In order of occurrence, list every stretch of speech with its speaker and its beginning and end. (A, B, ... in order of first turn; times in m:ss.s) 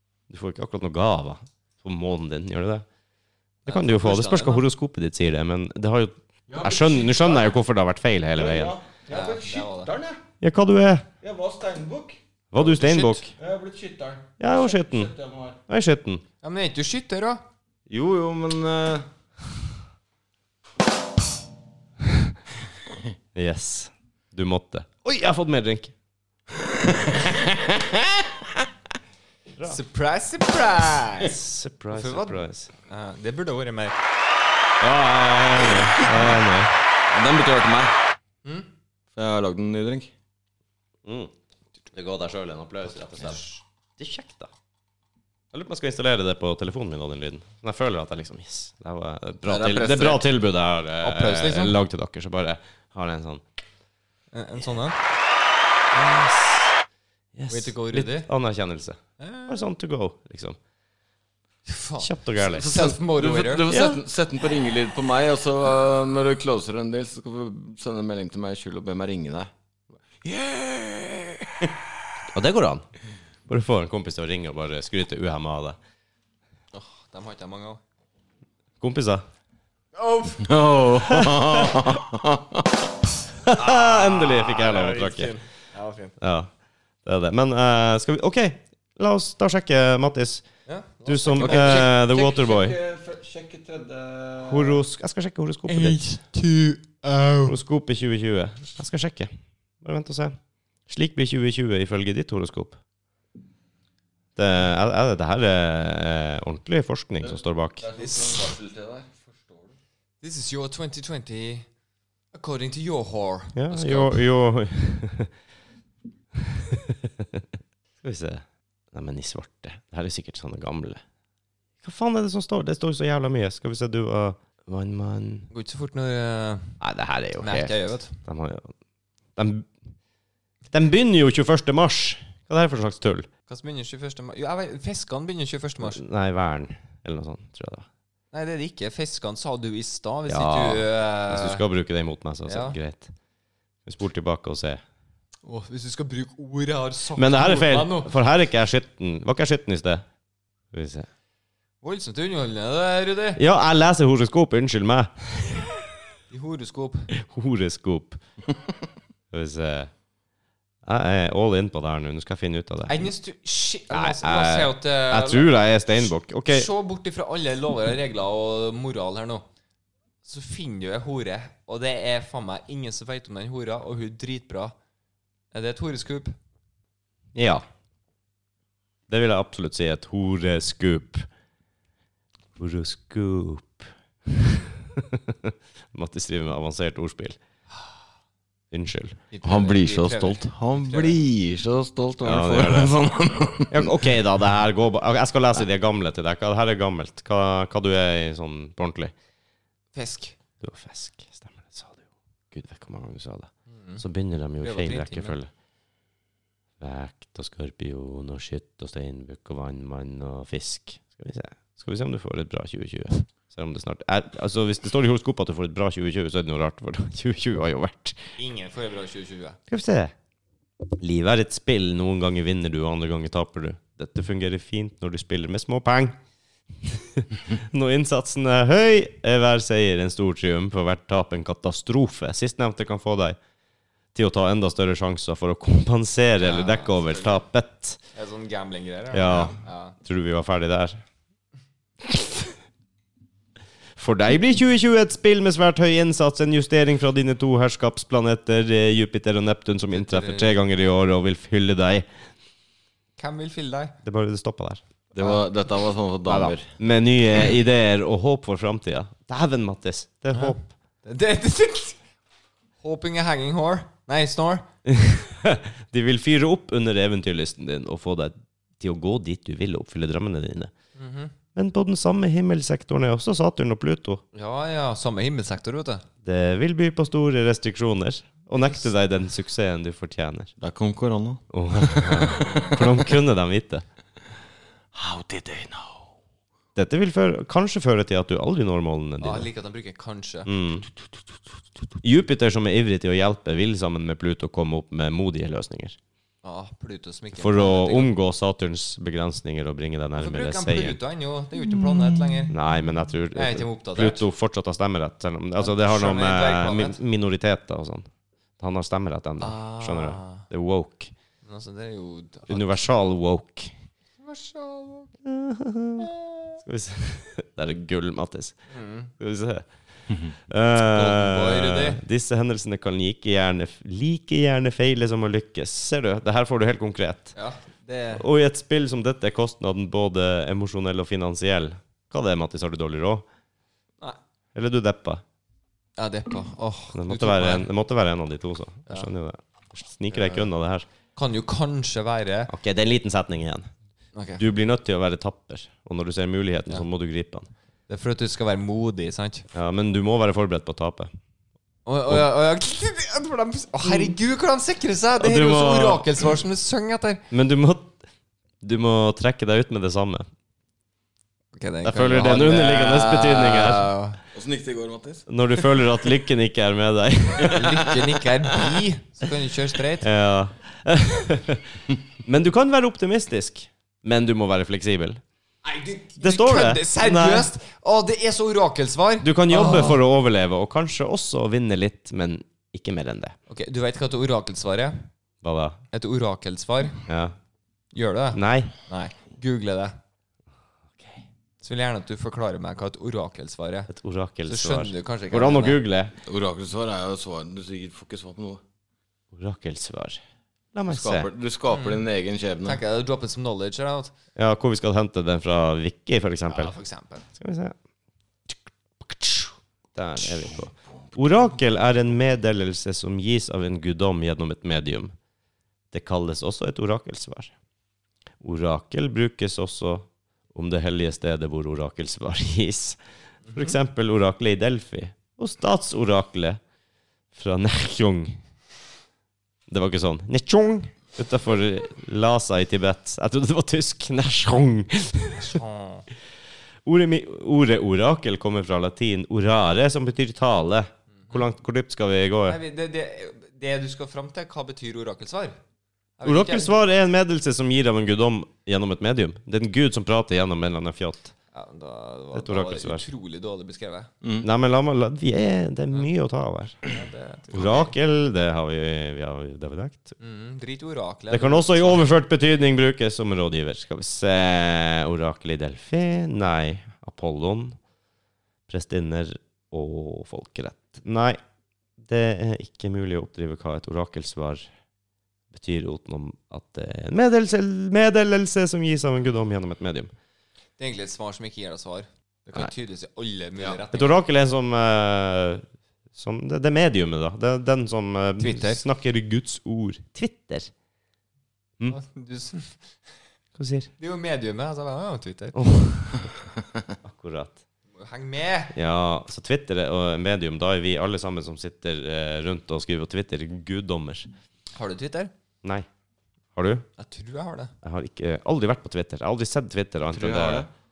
0:00.3-0:02.8 A
0:03.6-0:08.8 A
0:03.7-0:04.6 B
0:06.5-0:07.5 C
0:08.4-0:10.2 C
0:09.1-0:09.9 B
0:10.4-0:11.1 A
0:11.2-0:15.6 C
0:12.5-0:13.3 A
0:12.9-0:13.2 B
0:14.4-0:15.1 A
0:15.7-0:16.2 A
0:16.4-0:17.4 B
0:17.9-0:19.1 C
0:23.4-0:25.9 A
0:26.5-0:28.7 C
0:29.6-0:31.4 B
0:31.2-0:32.7 A
0:31.9-0:34.0 B
0:34.8-0:36.7 A
0:37.1-0:37.9 C
0:39.2-0:40.1 C
0:41.0-0:41.3 A
0:41.9-0:43.4 A
0:43.2-0:43.6 B
0:44.0-0:44.5 A
0:45.5-0:53.4 A
0:49.4-0:50.2 C
0:51.0-0:51.8 B
0:54.3-0:55.0 B
0:55.9-0:56.7 A
0:57.4-1:00.6 A
0:57.5-0:58.3 B
0:59.2-0:59.6 B
1:01.6-1:03.7 B
1:02.0-1:02.7 A
1:02.4-1:09.5 C
1:03.7-1:04.0 A
1:10.1-1:11.9 C
1:12.3-1:12.8 A
1:13.5-1:15.8 A
1:16.7-1:17.8 B
1:18.8-1:19.2 A
1:20.0-1:20.5 B
1:20.4-1:22.7 C
1:21.2-1:21.8 A
1:23.4-1:25.4 A
1:23.6-1:26.1 B
1:26.2-1:26.5 A
1:27.0-1:30.5 A
1:30.7-1:32.0 B
1:31.1-1:32.8 A
1:31.4-1:34.8 C
1:34.4-1:36.1 A
1:35.7-1:37.6 B
1:37.5-1:40.4 A
1:40.9-1:42.8 A
1:44.4-1:47.8 A
1:47.2-1:49.7 C
1:48.0-1:48.5 B
1:50.2-1:51.7 B
1:52.3-1:54.2 B
1:53.5-1:55.3 A
1:56.4-1:57.4 A
1:58.0-1:58.4 A
1:58.9-2:01.0 A
2:01.8-2:05.5 A
2:05.5-2:06.8 B
2:06.8-2:08.7 A
2:07.4-2:08.2 B
2:09.4-2:09.7 A
2:10.7-2:13.3 A
2:13.5-2:16.0 B
2:15.8-2:17.9 A
2:18.3-2:21.6 B
2:20.3-2:23.1 A
2:22.5-2:22.8 B
2:23.8-2:24.8 A
2:25.4-2:28.1 B
2:27.2-2:30.0 A
2:30.7-2:31.1 A
2:31.8-2:33.4 B
2:33.4-2:35.8 A
2:36.3-2:37.1 B
2:37.2-2:38.2 A
2:39.3-2:39.9 A
2:40.8-2:43.1 A
2:42.9-2:49.5 B
2:43.9-2:46.7 A
2:50.2-2:54.8 B
2:55.5-2:56.3 B
2:57.3-2:57.6 A
2:59.1-3:01.3 A
3:02.6-3:07.4 A
3:08.7-3:09.2 A
3:09.3-3:11.2 B
3:09.4-3:14.1 C
3:12.2-3:12.9 A
3:13.7-3:19.1 A
3:20.0-3:20.4 B
3:20.6-3:25.5 A
3:23.8-3:24.0 B
3:24.6-3:25.4 B
3:26.8-3:38.3 A
3:38.4-3:39.6 B
3:39.7-3:40.1 A
3:40.9-3:46.2 A
3:46.8-3:53.4 A
3:54.1-3:58.0 A
3:56.4-3:57.4 B
3:58.2-4:00.0 B
3:59.1-4:01.0 A
4:04.0-4:12.0 A
4:09.9-4:10.6 B
4:13.2-4:14.0 B
4:14.0-4:14.8 A
4:15.1-4:16.7 C
4:16.2-4:20.6 A
4:20.3-4:22.0 B
4:22.8-4:24.6 B
4:24.9-4:30.7 A
4:31.0-4:31.3 B
4:31.6-4:34.2 A
4:34.3-4:36.0 B
4:36.2-4:40.5 A
4:40.6-4:43.1 C
4:41.5-4:43.8 A
4:44.9-4:46.1 C
4:46.8-4:49.5 A
4:49.2-4:50.5 B
4:50.5-4:50.9 A
4:52.0-4:56.0 A
4:56.4-4:58.1 B
4:57.4-5:01.0 A
5:00.2-5:02.5 B
5:02.5-5:08.1 A
5:03.3-5:04.2 B
5:05.6-5:07.0 B
5:08.6-5:11.1 A
5:09.4-5:10.4 B
5:11.4-5:12.7 B
5:12.5-5:13.7 A
5:14.2-5:15.1 B
5:15.2-5:18.6 A
5:18.7-5:19.1 B
5:19.2-5:19.7 A
5:20.3-5:27.3 A
5:20.8-5:22.0 B
5:27.3-5:28.2 B
5:28.2-5:33.2 A
5:34.5-5:35.2 A
5:36.0-5:37.7 B
5:36.9-5:40.8 A
5:40.1-5:40.5 B
5:41.2-5:42.5 B
5:42.5-5:43.7 A
5:44.2-5:44.4 B
5:44.4-5:47.5 A
5:47.9-5:49.5 B
5:49.5-5:51.1 A
5:51.8-5:57.2 B
5:53.8-5:54.1 A
5:55.2-5:56.0 A
5:57.3-5:58.0 A
5:58.6-6:00.2 A
6:01.6-6:04.2 B
6:01.8-6:03.9 A
6:04.3-6:05.2 C
6:05.3-6:07.9 A
6:07.5-6:10.1 B
6:10.0-6:15.2 A
6:15.6-6:20.0 B
6:16.2-6:17.5 A
6:19.2-6:23.3 A
6:23.5-6:25.0 B
6:25.4-6:25.8 A
6:25.9-6:27.0 B
6:27.1-6:27.3 A
6:27.9-6:30.0 B
6:28.3-6:28.7 A
6:31.6-6:33.9 B
6:33.9-6:36.2 A
6:34.5-6:35.8 B
6:36.2-6:38.6 C
6:39.3-6:40.2 A
6:40.7-6:41.3 A
6:40.9-6:42.8 C
6:41.7-6:42.0 B
6:42.6-6:44.1 B
6:44.4-6:46.8 A
6:46.5-6:47.3 B
6:47.4-6:47.8 A
6:49.0-6:55.1 A
6:55.9-6:57.5 A
6:58.4-7:03.0 A
7:03.5-7:06.6 A
7:07.3-7:08.4 A
7:09.7-7:15.6 A
7:15.4-7:16.0 B
7:16.8-7:22.6 A
7:22.5-7:25.6 B
7:26.2-7:26.8 B
7:26.2-7:31.3 A
7:31.5-7:34.1 B
7:32.3-7:33.0 A
7:34.2-7:34.5 C
7:34.4-7:36.8 A
7:36.9-7:37.9 B
7:37.5-7:40.1 A
7:40.2-7:42.1 B
7:41.3-7:47.8 A
7:48.7-7:51.4 A
7:52.0-7:54.7 A
7:55.5-8:00.1 A
8:00.8-8:04.2 B
8:03.9-8:10.7 A
8:08.4-8:08.8 B
8:11.9-8:12.8 B
8:13.6-8:13.9 A
8:14.0-8:15.6 B
8:15.5-8:16.3 A
8:17.0-8:17.6 A
8:18.0-8:18.7 B
8:18.7-8:24.3 A
8:24.8-8:25.3 B
8:26.5-8:26.8 A
8:27.0-8:27.7 B
8:27.8-8:30.7 A
8:30.1-8:30.7 C